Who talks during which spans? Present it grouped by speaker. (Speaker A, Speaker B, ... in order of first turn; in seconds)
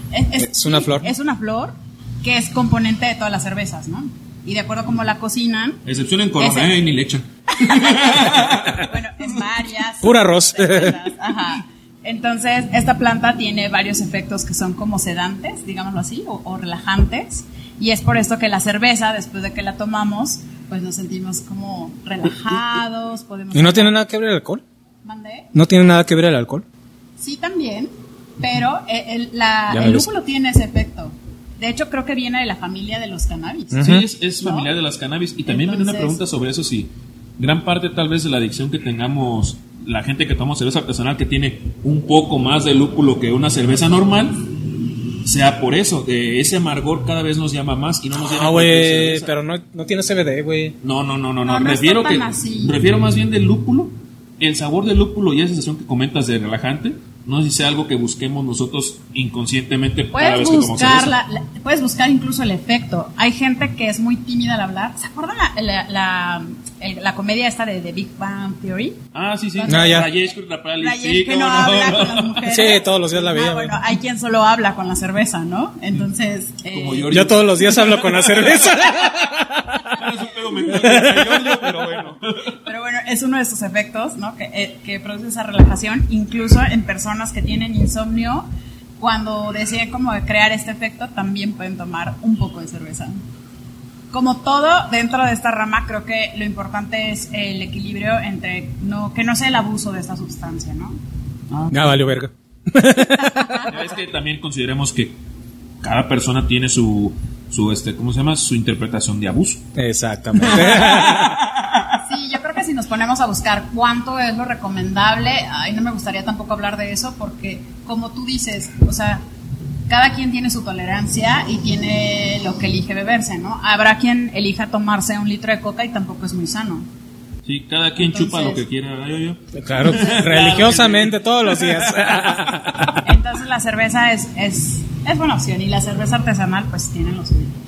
Speaker A: 0.1-5.8, 6.4-6.7, 7.6-24.0, 25.0-25.5, 27.2-34.7, 35.5-36.2, 51.4-52.8, 60.1-69.0, 69.6-70.1, 70.8-77.4, 82.7-88.5, 89.0-93.2, 94.1-101.0, 103.3-103.7, 111.9-119.2, 119.9-126.9, 128.0-128.6, 133.0-137.5
Speaker B: 0.4-1.1, 10.0-11.0, 23.5-24.6, 25.5-26.6, 29.7-30.1, 33.7-34.0, 48.2-50.8, 69.7-70.1, 72.5-73.8, 77.1-79.8, 80.7-81.7, 101.7-103.7, 109.8-111.5, 129.5-133.0
Speaker C: 5.8-8.9, 33.8-49.3, 50.8-61.1, 69.1-72.3, 76.7-78.8, 79.8-82.2, 101.5-102.0, 103.7-105.2, 105.8-109.6, 110.4-111.3, 127.4-132.4